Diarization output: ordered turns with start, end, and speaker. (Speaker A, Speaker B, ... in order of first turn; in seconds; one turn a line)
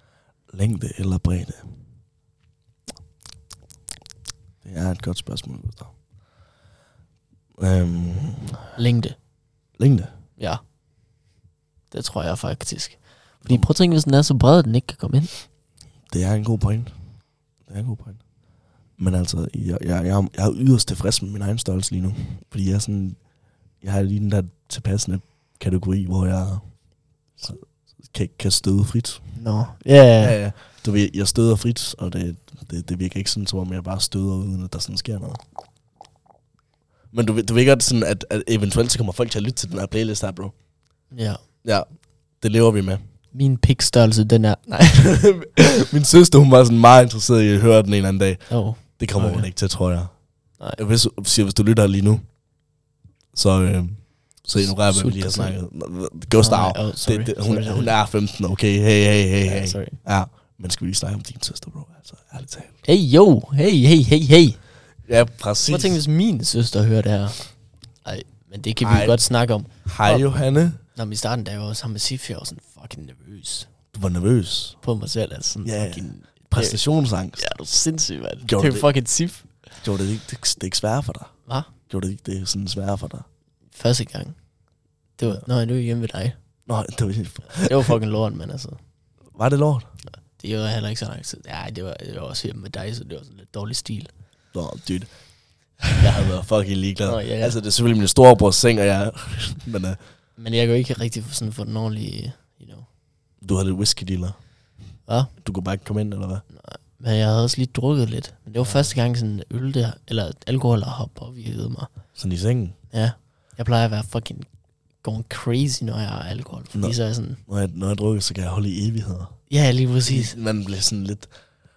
Speaker A: 0.5-1.7
Speaker A: 4.6-5.9
Speaker A: 7.6-8.7
Speaker B: 8.8-9.2
Speaker A: 9.8-10.1
Speaker B: 11.9-15.3
Speaker A: 16.1-16.9
Speaker A: 17.7-18.2
Speaker A: 19.0-23.2
Speaker A: 23.8-26.7
Speaker A: 27.3-29.3
Speaker B: 29.4-30.4
Speaker A: 30.2-35.4
Speaker A: 37.1-40.5
Speaker B: 41.1-41.4
Speaker A: 41.6-43.0
Speaker B: 43.3-45.2
Speaker A: 45.0-50.2
Speaker B: 48.5-49.5
Speaker A: 50.7-52.2
Speaker A: 53.3-62.7
Speaker B: 54.5-55.6
Speaker B: 56.4-57.9
Speaker B: 59.4-60.0
Speaker B: 62.8-64.6
Speaker A: 65.1-66.0
Speaker B: 65.7-67.5
Speaker B: 68.0-70.3
Speaker A: 68.8-69.2
Speaker A: 69.8-70.8
Speaker B: 70.9-73.7
Speaker A: 73.9-74.8
Speaker B: 74.8-76.8
Speaker A: 75.6-77.5
Speaker B: 77.4-79.5
Speaker A: 78.4-78.9
Speaker A: 79.8-81.3
Speaker A: 81.9-83.2
Speaker B: 83.7-84.4
Speaker B: 85.2-86.3
Speaker A: 86.7-87.9
Speaker B: 87.6-88.8
Speaker A: 89.3-89.9
Speaker B: 90.3-94.1
Speaker A: 94.5-95.1
Speaker A: 95.9-100.0
Speaker B: 97.0-97.5
Speaker B: 100.4-102.9
Speaker A: 103.4-104.3
Speaker B: 105.1-105.3
Speaker A: 105.4-106.4
Speaker B: 106.5-111.9
Speaker A: 108.6-108.9
Speaker A: 112.2-112.8
Speaker B: 112.9-114.5
Speaker B: 115.0-117.4
Speaker A: 116.7-119.3
Speaker B: 119.5-120.4
Speaker A: 120.0-121.3